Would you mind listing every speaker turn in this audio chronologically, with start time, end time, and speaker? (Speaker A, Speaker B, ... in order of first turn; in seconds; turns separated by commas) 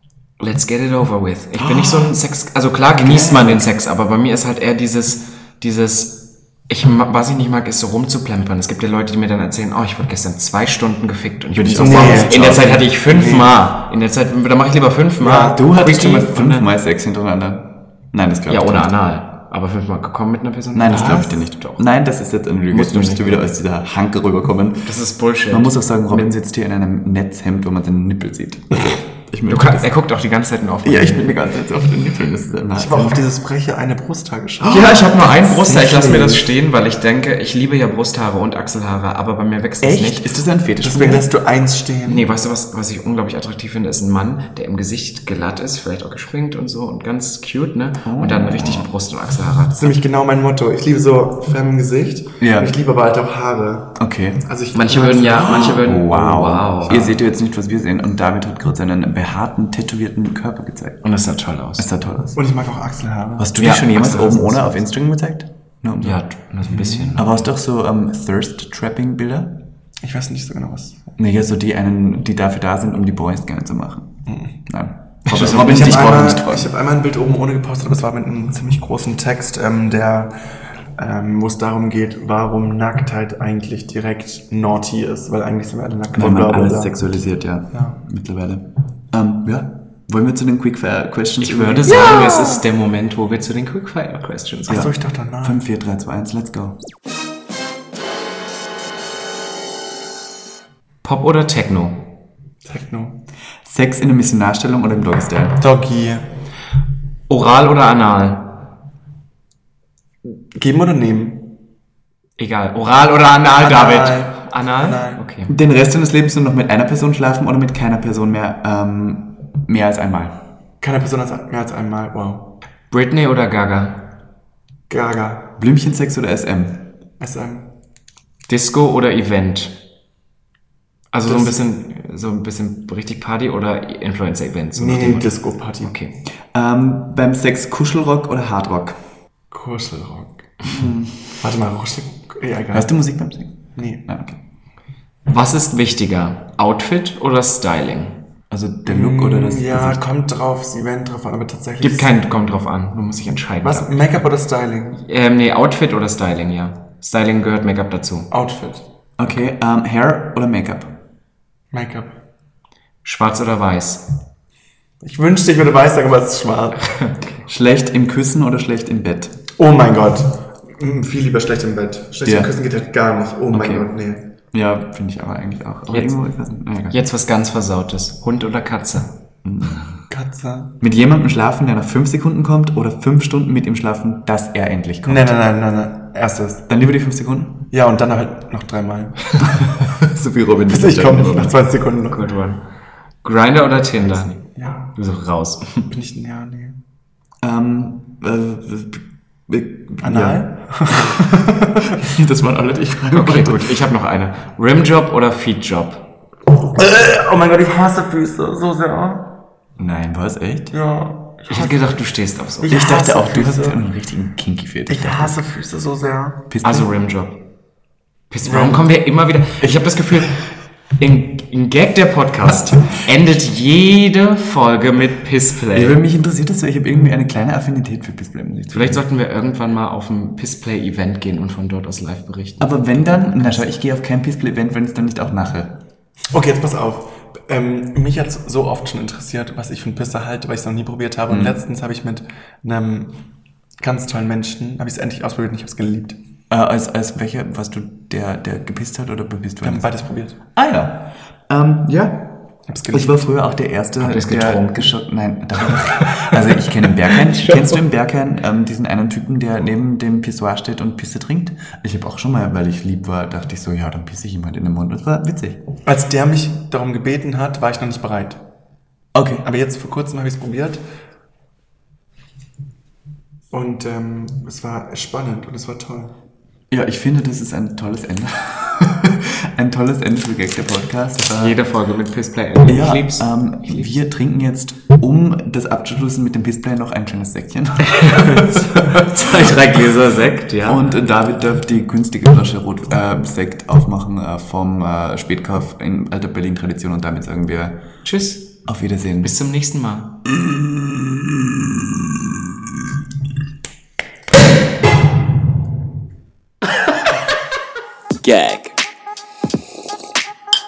Speaker A: 0.4-16.7, Speaker B: 3.0-3.6, Speaker B: 11.6-12.9, Speaker C: 11.7-13.5, Speaker C: 15.2-15.6, Speaker B: 15.5-18.9, Speaker A: 18.5-21.8, Speaker B: 20.7-24.9, Speaker A: 22.7-23.5, Speaker A: 24.9-26.3, Speaker B: 25.5-29.9, Speaker A: 29.5-31.4, Speaker B: 30.8-33.2, Speaker C: 32.7-36.5, Speaker A: 34.6-40.3, Speaker B: 39.8-41.3, Speaker C: 40.8-42.3, Speaker A: 42.1-50.0, Speaker B: 48.0-48.9, Speaker C: 49.8-55.9, Speaker B: 52.4-52.7, Speaker B: 54.0-54.4, Speaker A: 54.7-57.2, Speaker B: 55.4-61.0, Speaker A: 61.0-61.9, Speaker B: 61.8-62.4, Speaker C: 62.4-63.5, Speaker B: 63.4-69.5, Speaker A: 63.6-64.6, Speaker A: 66.0-67.4, Speaker C: 70.0-71.0, Speaker B: 71.2-74.1, Speaker C: 74.3-74.5, Speaker B: 74.7-76.7, Speaker A: 75.3-75.6, Speaker C: 75.4-80.3, Speaker C: 81.0-87.1, Speaker B: 86.2-92.2, Speaker C: 87.7-88.0, Speaker A: 91.4-94.9, Speaker C: 92.0-92.4, Speaker C: 94.7-95.6, Speaker B: 95.4-96.8, Speaker A: 101.0-102.0, Speaker C: 102.6-103.2, Speaker B: 103.7-105.6, Speaker C: 105.6-106.3, Speaker A: 107.3-108.6, Speaker C: 110.5-111.5, Speaker A: 112.4-115.5, Speaker C: 113.6-115.2, Speaker B: 115.5-120.4, Speaker C: 120.8-122.5, Speaker A: 122.9-124.0, Speaker C: 124.9-125.5, Speaker B: 125.6-126.8, Speaker C: 127.2-127.7, Speaker A: 128.5-129.8, Speaker A: 131.1-135.3, Speaker C: 131.2-131.6, Speaker C: 134.8-135.9, Speaker A: 135.8-136.1, Speaker B: 136.5-139.0, Speaker C: 139.5-140.5, Speaker B: 140.6-141.3, Speaker C: 141.4-142.9, Speaker B: 142.7-144.4, Speaker C: 143.8-144.0, Speaker A: 145.3-148.2, Speaker B: 148.5-150.0, Speaker C: 148.9-152.1, Speaker A: 151.8-154.2, Speaker C: 153.6-155.0, Speaker A: 155.1-158.3, Speaker C: 158.3-158.9, Speaker B: 159.2-160.9, Speaker C: 161.7-162.1, Speaker A: 163.1-164.0, Speaker C: 165.0-166.9, Speaker A: 167.0-167.3, Speaker B: 167.5-169.4, Speaker C: 169.6-174.2, Speaker B: 172.2-172.5, Speaker A: 173.5-173.8, Speaker B: 174.5-177.0, Speaker A: 175.9-176.2, Speaker A: 176.9-179.1, Speaker B: 179.4-180.0, Speaker C: 180.1-180.7, Speaker B: 180.8-185.4, Speaker C: 185.1-186.7, Speaker B: 186.7-187.6, Speaker C: 187.7-189.5, Speaker B: 190.0-191.6, Speaker C: 190.7-192.3, Speaker A: 192.1-192.6, Speaker A: 193.2-195.9, Speaker C: 194.6-194.9, Speaker C: 195.9-196.8, Speaker B: 197.4-203.8, Speaker C: 200.0-202.0, Speaker A: 203.1-206.1, Speaker C: 206.6-209.3, Speaker B: 209.8-210.7, Speaker C: 210.7-211.9, Speaker A: 211.5-212.8, Speaker C: 212.6-213.8, Speaker B: 212.7-215.4, Speaker C: 214.9-216.4, Speaker B: 216.5-216.9, Speaker A: 216.6-217.4, Speaker A: 218.3-220.4, Speaker C: 218.4-218.9, Speaker A: 221.0-226.0, Speaker B: 225.7-229.0, Speaker A: 228.7-233.6, Speaker B: 232.6-235.8, Speaker C: 236.3-243.2, Speaker B: 241.3-241.6, Speaker C: 243.8-246.2, Speaker B: 246.5-249.9, Speaker C: 249.6-250.4, Speaker B: 250.5-252.4, Speaker C: 252.7-253.2, Speaker B: 252.9-265.6, Speaker A: 254.0-254.9, Speaker A: 255.7-256.3, Speaker A: 257.1-257.8, Speaker C: 265.9-268.4, Speaker B: 269.1-269.4, Speaker C: 269.4-270.8, Speaker C: 273.5-276.1, Speaker B: 276.7-281.6, Speaker A: 281.2-283.9, Speaker B: 282.7-289.1, Speaker A: 287.9-290.9, Speaker B: 290.6-297.8, Speaker A: 298.1-298.6, Speaker B: 298.7-299.3, Speaker A: 299.2-300.2, Speaker B: 300.3-302.2, Speaker A: 308.2-308.7